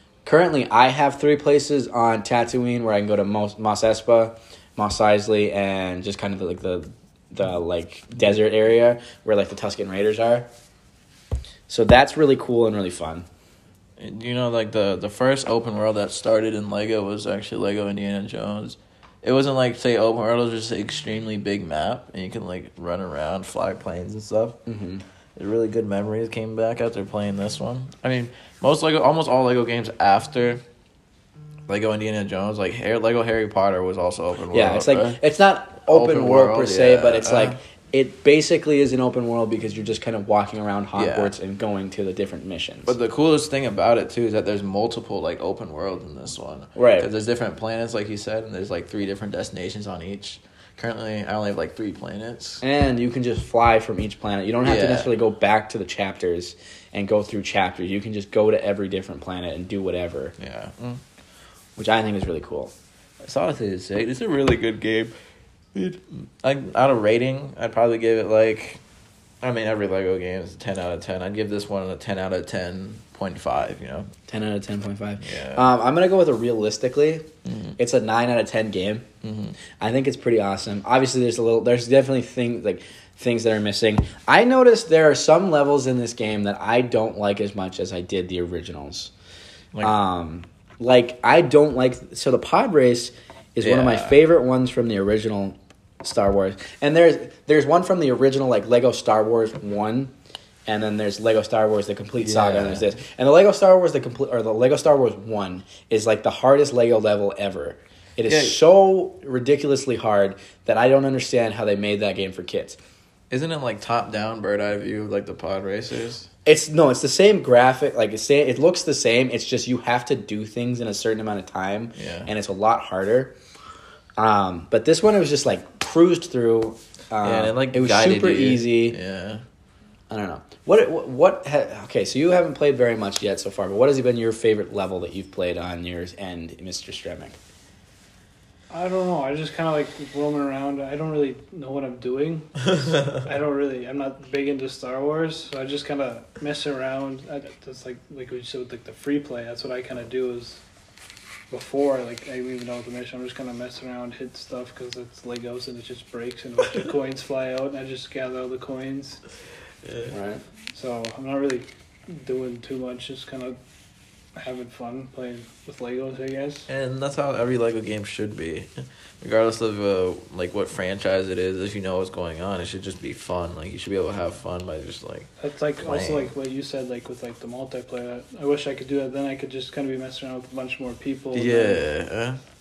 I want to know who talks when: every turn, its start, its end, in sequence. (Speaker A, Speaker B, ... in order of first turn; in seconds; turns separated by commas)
Speaker A: 0.2-10.5, Speaker A: 11.7-13.3, Speaker B: 14.0-24.6, Speaker A: 24.7-25.0, Speaker B: 25.4-30.6, Speaker B: 31.7-35.2, Speaker A: 34.5-42.9, Speaker B: 35.9-37.6, Speaker B: 41.0-41.4, Speaker B: 42.9-52.6, Speaker A: 46.8-47.1, Speaker A: 52.6-60.3, Speaker B: 54.6-55.1, Speaker B: 60.4-61.0, Speaker A: 61.8-62.7, Speaker B: 63.2-65.2, Speaker B: 65.8-68.8, Speaker B: 69.4-74.1, Speaker A: 74.3-77.3, Speaker B: 75.2-75.7, Speaker B: 77.5-77.8, Speaker A: 77.8-79.1, Speaker B: 79.2-79.5, Speaker A: 79.8-89.1, Speaker A: 89.8-100.1, Speaker B: 93.6-94.2, Speaker A: 100.7-112.8, Speaker B: 102.2-102.9, Speaker B: 108.3-108.6, Speaker B: 113.3-116.3, Speaker A: 116.5-123.4, Speaker B: 122.0-122.3, Speaker A: 124.2-129.0, Speaker B: 127.2-129.4, Speaker A: 130.1-137.4, Speaker C: 138.7-150.6, Speaker C: 151.5-159.2, Speaker B: 159.8-160.2, Speaker A: 160.1-160.4, Speaker C: 160.7-163.6, Speaker C: 164.4-166.7, Speaker B: 166.7-168.7, Speaker B: 169.2-175.3, Speaker C: 175.4-181.9, Speaker B: 175.8-176.3, Speaker B: 181.3-182.4